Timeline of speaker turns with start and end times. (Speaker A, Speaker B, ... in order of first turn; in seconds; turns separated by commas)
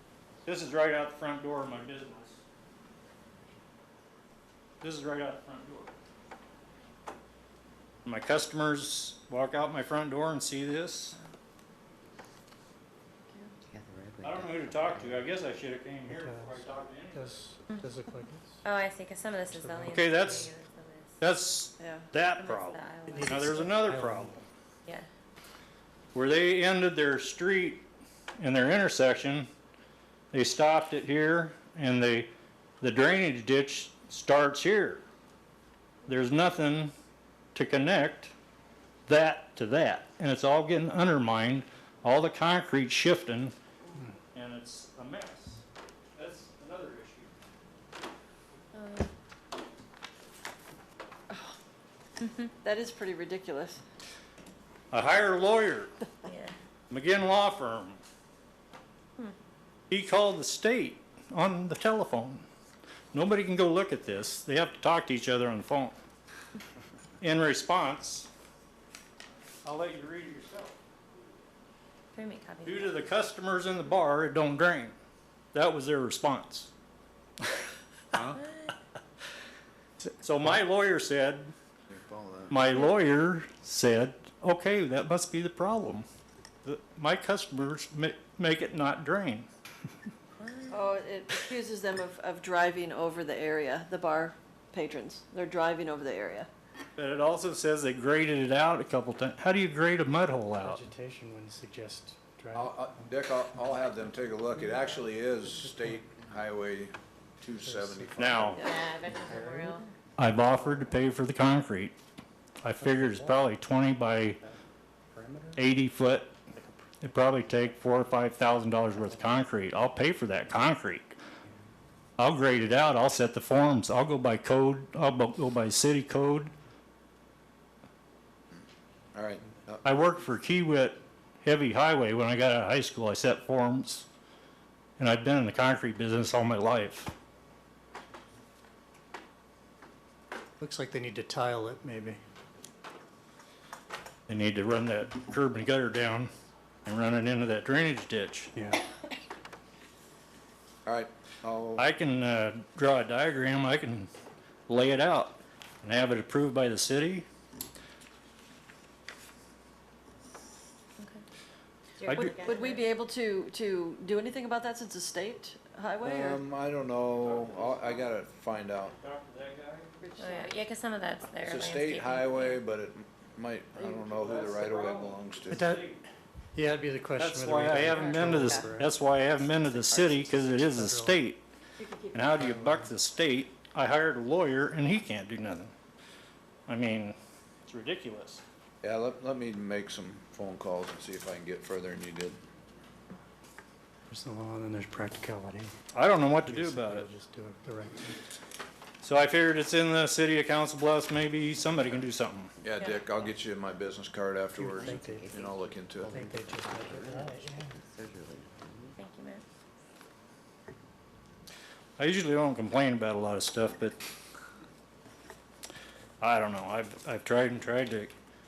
Speaker A: 0.5-2.4, Speaker A: 4.8-5.9, Speaker A: 8.1-11.2, Speaker B: 13.7-15.2, Speaker A: 14.2-17.5, Speaker C: 16.1-18.6, Speaker D: 18.6-21.2, Speaker C: 19.5-20.5, Speaker A: 19.9-20.5, Speaker A: 21.2-24.4, Speaker E: 21.8-22.1, Speaker D: 22.2-23.6, Speaker C: 23.1-24.4, Speaker A: 26.1-27.8, Speaker A: 28.4-29.5, Speaker A: 30.3-32.3, Speaker A: 32.8-35.0, Speaker A: 36.0-36.9, Speaker A: 37.5-38.3, Speaker A: 39.1-43.5, Speaker A: 44.3-45.6, Speaker A: 46.2-47.3, Speaker D: 48.7-49.1, Speaker E: 51.3-51.6, Speaker D: 52.2-52.5, Speaker E: 52.6-53.8, Speaker A: 54.9-55.9, Speaker D: 56.2-56.5, Speaker A: 56.9-58.0, Speaker A: 59.9-62.5, Speaker A: 63.1-66.0, Speaker A: 67.2-68.3, Speaker A: 69.6-70.8, Speaker D: 72.1-73.0, Speaker A: 72.6-75.0, Speaker A: 75.5-76.7, Speaker D: 78.3-78.7, Speaker A: 80.2-81.5, Speaker F: 81.9-82.6, Speaker A: 82.5-86.1, Speaker A: 86.6-89.5, Speaker D: 90.4-90.9, Speaker E: 90.7-96.5, Speaker A: 97.0-100.8, Speaker C: 100.6-102.8, Speaker F: 102.5-108.8, Speaker C: 105.6-106.0, Speaker C: 107.5-109.8, Speaker A: 108.2-108.6, Speaker D: 108.6-109.9, Speaker A: 110.2-111.9, Speaker C: 110.4-110.9, Speaker A: 112.6-114.4, Speaker C: 112.8-113.5, Speaker C: 115.1-115.6, Speaker A: 115.5-116.3, Speaker C: 116.5-117.2, Speaker A: 117.0-121.2, Speaker A: 122.2-126.5, Speaker F: 129.1-129.9, Speaker A: 129.8-134.1, Speaker A: 135.0-137.1, Speaker C: 140.6-142.2, Speaker A: 144.3-146.3, Speaker A: 146.8-148.5, Speaker C: 148.5-148.8, Speaker F: 150.8-151.9, Speaker A: 151.8-154.1, Speaker A: 154.7-157.3, Speaker D: 162.0-162.8, Speaker A: 162.0-162.3, Speaker E: 162.4-166.4, Speaker F: 166.0-168.9, Speaker A: 167.1-168.1, Speaker A: 168.9-170.0, Speaker E: 170.0-170.5, Speaker D: 170.2-172.6, Speaker F: 171.4-175.7, Speaker E: 173.8-174.4, Speaker A: 174.1-176.1, Speaker C: 175.5-175.8, Speaker C: 176.5-178.9, Speaker A: 177.2-181.4, Speaker B: 178.3-178.6, Speaker C: 180.6-181.2, Speaker E: 181.8-182.3, Speaker A: 182.1-185.7, Speaker C: 182.3-182.9, Speaker A: 186.7-188.4, Speaker F: 188.8-192.4, Speaker C: 194.1-195.7, Speaker A: 195.9-197.1, Speaker C: 196.4-198.1, Speaker A: 199.0-202.5, Speaker F: 202.6-206.2, Speaker B: 204.6-209.0, Speaker C: 204.6-205.3, Speaker C: 206.1-207.7, Speaker D: 209.0-209.4, Speaker A: 212.0-214.0, Speaker A: 216.2-218.1